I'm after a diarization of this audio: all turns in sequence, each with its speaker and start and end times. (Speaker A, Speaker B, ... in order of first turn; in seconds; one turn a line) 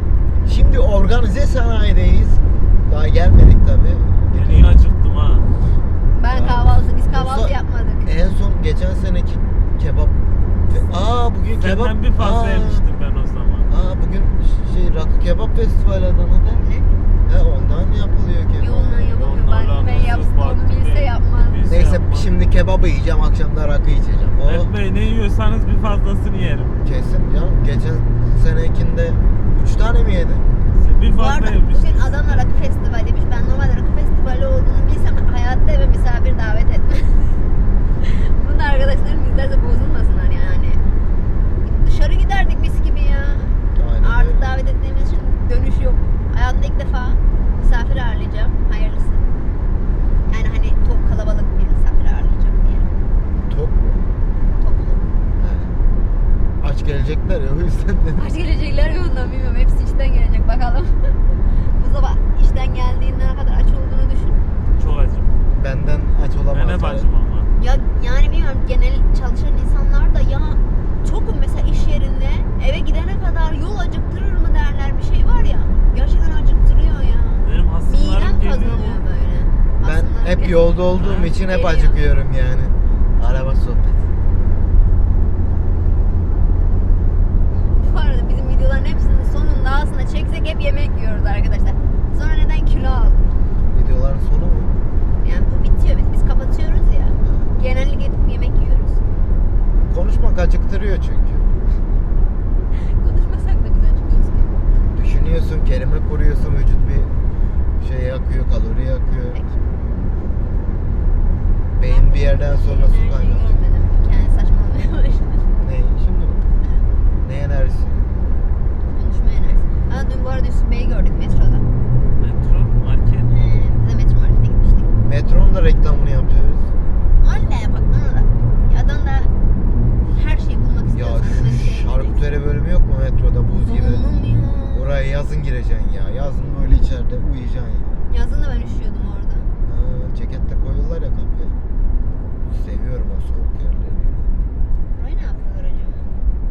Speaker A: 0.5-4.8
Speaker B: 4.3-5.5
Speaker C: 6.1-8.1
Speaker A: 6.3-7.5
Speaker A: 8.1-10.2
Speaker A: 10.7-12.8
Speaker B: 11.6-13.7
Speaker A: 13.7-16.6
Speaker C: 16.6-16.9
Speaker A: 17.3-19.2
Speaker C: 18.6-21.6
Speaker B: 19.1-22.3
Speaker A: 21.7-24.7
Speaker B: 24.4-26.8
Speaker A: 26.8-30.5
Speaker B: 30.7-32.6
Speaker C: 31.2-37.4
Speaker C: 38.0-40.8
Speaker C: 41.6-49.3
Speaker A: 43.8-44.5
Speaker C: 50.3-52.9
Speaker A: 53.5-54.1
Speaker C: 54.6-55.0
Speaker A: 55.4-55.8
Speaker A: 56.6-58.3
Speaker C: 58.2-64.4
Speaker B: 64.7-65.3
Speaker A: 65.5-67.1
Speaker B: 66.5-67.5
Speaker C: 67.6-80.8
Speaker B: 77.4-79.0
Speaker A: 79.8-84.1
Speaker B: 80.9-81.3
Speaker C: 81.4-82.0
Speaker C: 87.8-93.3
Speaker A: 93.7-94.8
Speaker C: 95.2-99.0
Speaker A: 97.2-97.5
Speaker A: 99.9-101.5
Speaker C: 102.7-104.5
Speaker A: 104.9-107.1
Speaker A: 107.8-109.4
Speaker C: 109.1-109.6
Speaker A: 111.8-113.6
Speaker C: 111.8-115.5
Speaker A: 115.6-116.4
Speaker A: 117.2-118.2
Speaker C: 118.9-121.7
Speaker B: 122.2-123.4
Speaker C: 123.3-124.9
Speaker A: 125.0-126.7
Speaker C: 127.2-129.3
Speaker C: 130.1-132.2
Speaker A: 130.9-134.1
Speaker C: 133.6-134.9
Speaker A: 134.7-138.0
Speaker C: 138.1-139.5
Speaker A: 139.6-141.6
Speaker A: 142.4-144.3
Speaker C: 144.9-146.1